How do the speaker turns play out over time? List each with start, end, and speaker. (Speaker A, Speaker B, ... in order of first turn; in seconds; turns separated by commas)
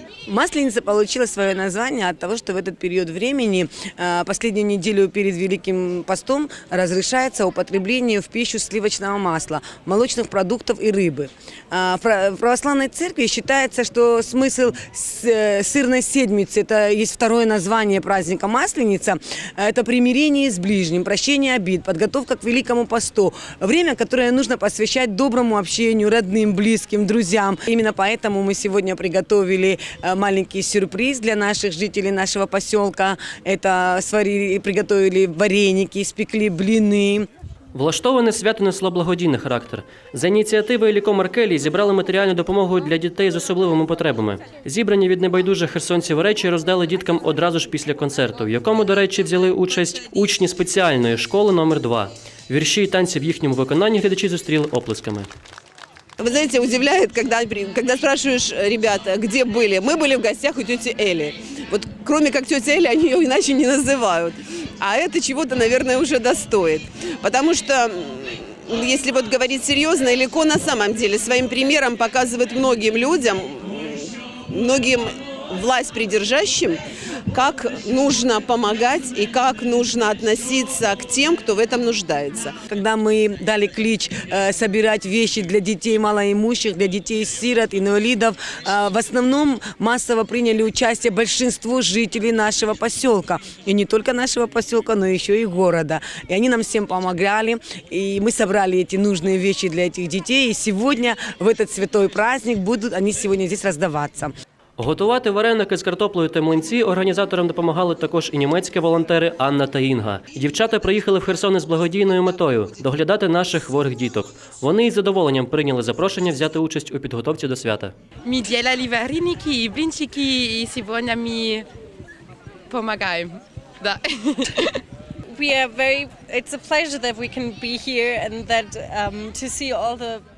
Speaker A: 0.3-37.3, Speaker B: 37.7-55.3, Speaker C: 56.2-82.5, Speaker A: 82.7-104.3, Speaker B: 104.8-117.9, Speaker D: 118.2-121.7, Speaker D: 122.7-124.8, Speaker E: 125.3-130.2